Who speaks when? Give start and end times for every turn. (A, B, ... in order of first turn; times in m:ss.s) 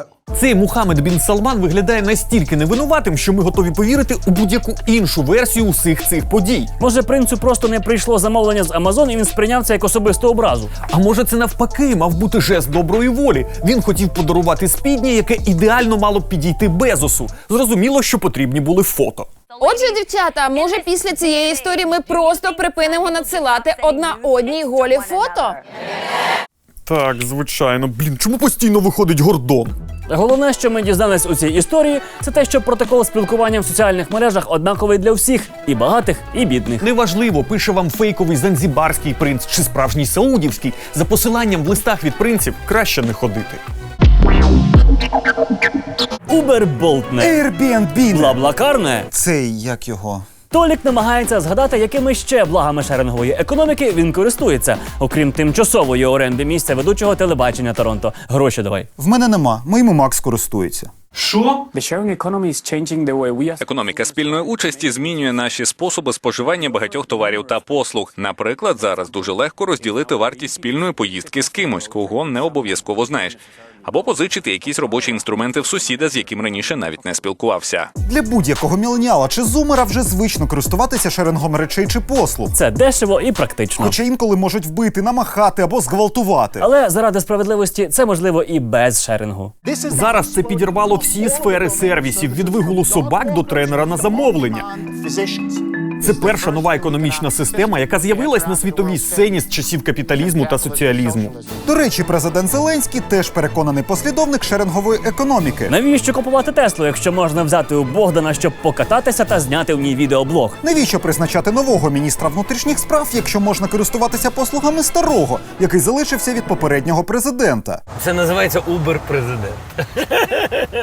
0:00.3-0:06.7 A
0:06.8-0:10.7 B
0:10.9-0:19.3 A
0:19.6-0:25.6 C
0:26.9-0:29.7 A
0:30.1-0:36.8 B
0:36.8-0:43.6 A
0:46.3-0:47.4 B
0:47.2-0:48.4 D
0:48.1-0:49.1 B
0:49.1-0:50.2 D
0:50.5-0:58.9 B
0:59.0-1:00.9 D
1:01.2-1:01.6 A
1:03.6-1:17.9 E
1:18.0-1:22.5 D
1:22.5-1:24.0 B
1:23.8-1:26.7 D
1:26.6-1:29.5 B
1:29.8-1:34.8 A
1:36.0-1:41.3 A
1:41.7-1:45.7 D
1:45.7-1:50.6 B
1:50.6-1:57.8 D
1:58.0-2:00.5 F